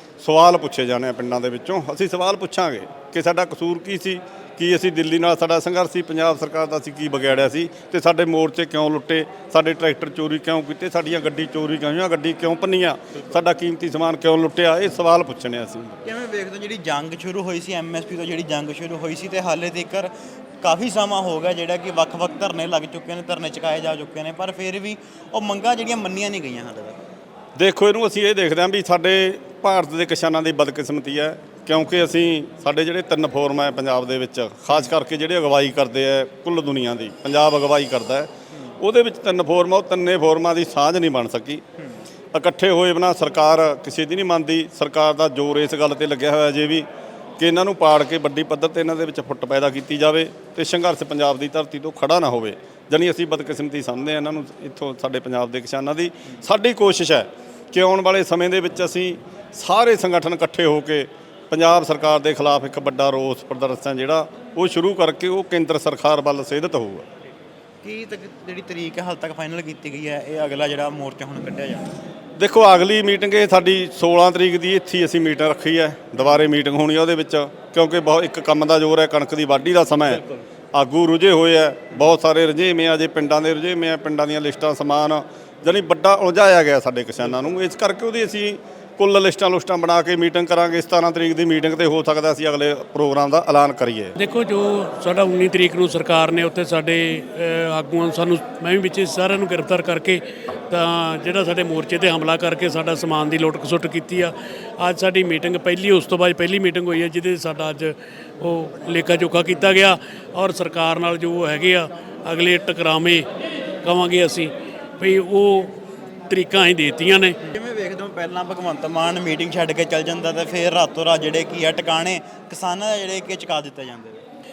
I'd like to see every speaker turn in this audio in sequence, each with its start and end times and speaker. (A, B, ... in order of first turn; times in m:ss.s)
0:00.2-0:16.0 A
0:16.0-0:27.0 B
0:27.6-0:41.6 A
0:42.3-0:46.8 A
0:47.4-1:07.1 A
1:07.8-1:11.9 B
1:12.4-1:20.2 A
1:20.7-1:34.2 A
1:34.2-1:53.2 C
1:53.8-1:55.7 C
1:56.3-1:57.4 C
1:57.5-2:04.2 B